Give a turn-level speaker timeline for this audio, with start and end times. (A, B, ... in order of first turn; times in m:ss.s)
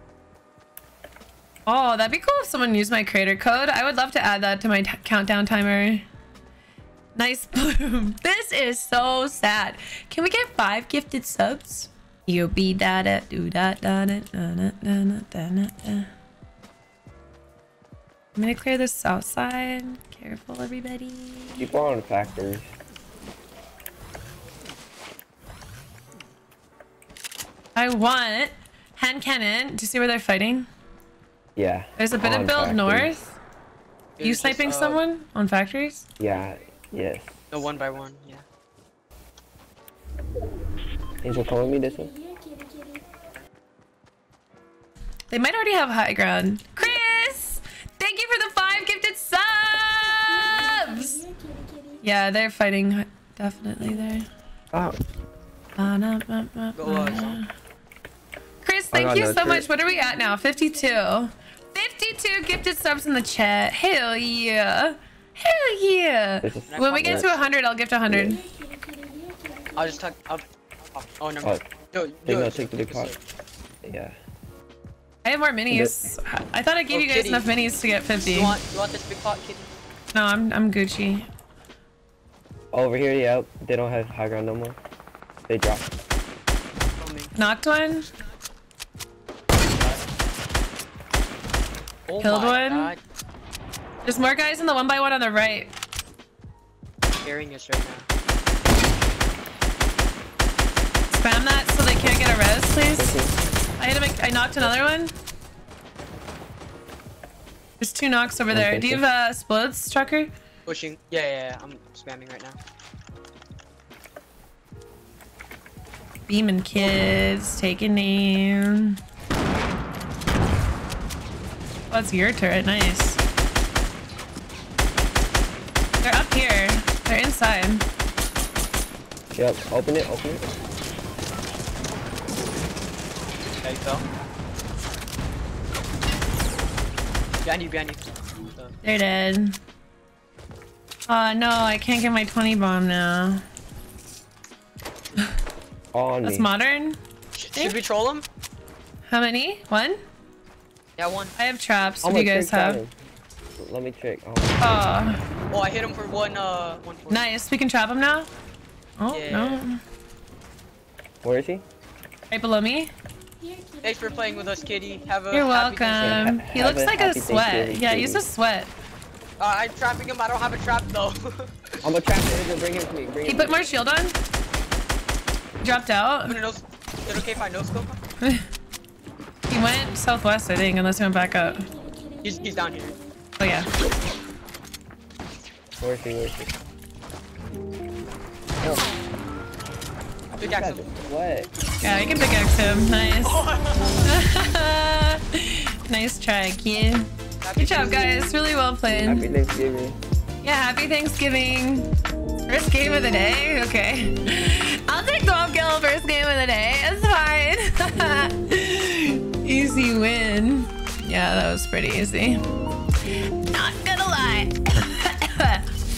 0:01.6-0:06.0 A
0:07.1-0:16.1 A
0:18.4-0:21.7 A
0:21.6-0:22.7 B
0:27.7-0:30.7 A
0:31.6-0:33.1 B
0:32.0-0:33.4 A
0:34.2-0:35.0 C
0:34.2-0:36.0 A
0:36.2-0:37.4 B
0:37.5-0:38.4 C
0:41.2-0:42.1 B
0:45.3-0:51.2 A
0:52.0-0:54.3 A
0:54.7-0:55.0 B
0:55.8-0:57.5 A
0:56.8-0:57.4 C
0:58.6-1:08.4 A
0:58.9-0:59.7 B
1:06.4-1:07.3 B
1:06.7-1:07.5 C
1:08.1-1:08.4 B
1:09.8-1:13.2 C
1:12.2-1:13.1 B
1:13.8-1:14.2 B
1:15.2-1:18.6 A
1:16.9-1:17.5 C
1:18.2-1:19.7 C
1:20.1-1:21.3 A
1:22.7-1:24.8 B
1:25.5-1:25.9 B
1:27.0-1:27.3 C
1:27.3-1:28.0 A
1:29.7-1:30.0 C
1:32.1-1:33.0 C
1:32.2-1:32.9 A
1:34.0-1:35.7 A
1:37.2-1:38.1 C
1:41.1-1:43.2 A
1:42.9-1:43.3 B
1:43.8-1:45.1 A
1:47.8-1:50.3 A
1:48.5-1:49.0 B
1:50.6-1:52.6 C
1:56.3-1:59.0 A
2:01.9-2:03.2 A
2:06.0-2:07.8 A
2:09.3-2:10.5 B
2:13.6-2:14.0 C
2:17.4-2:18.7 C
2:18.8-2:19.6 A
2:21.1-2:23.4 A
2:25.9-2:26.5 B
2:26.2-2:27.0 A
2:27.4-2:28.2 C
2:27.5-2:27.8 A
2:29.1-2:30.0 A
2:31.0-2:31.3 C
2:31.4-2:32.8 A
2:32.0-2:32.9 B
2:33.6-2:34.6 B
2:34.6-2:35.2 A
2:35.5-2:37.3 C
2:37.1-2:38.3 A
2:39.0-2:39.8 A
2:39.1-2:39.6 C
2:41.2-2:41.6 B
2:42.3-2:42.9 A
2:43.8-2:46.4 C
2:45.3-2:48.7 A
2:46.0-2:48.2 B
2:49.4-2:51.5 C
2:51.8-2:53.6 B
2:53.2-2:54.2 A
2:55.6-2:56.4 A
2:56.2-2:58.0 C
2:59.5-3:01.6 A
3:02.2-3:03.0 C
3:03.4-3:03.7 A
3:05.8-3:06.5 B
3:08.6-3:08.9 B
3:10.3-3:11.5 B
3:10.4-3:10.9 C
3:11.8-3:13.4 A
3:13.2-3:14.1 C
3:14.0-3:19.2 A
3:17.4-3:18.2 C
3:19.0-3:20.0 B
3:20.4-3:21.9 A
3:22.4-3:32.4 A
3:33.4-3:35.6 A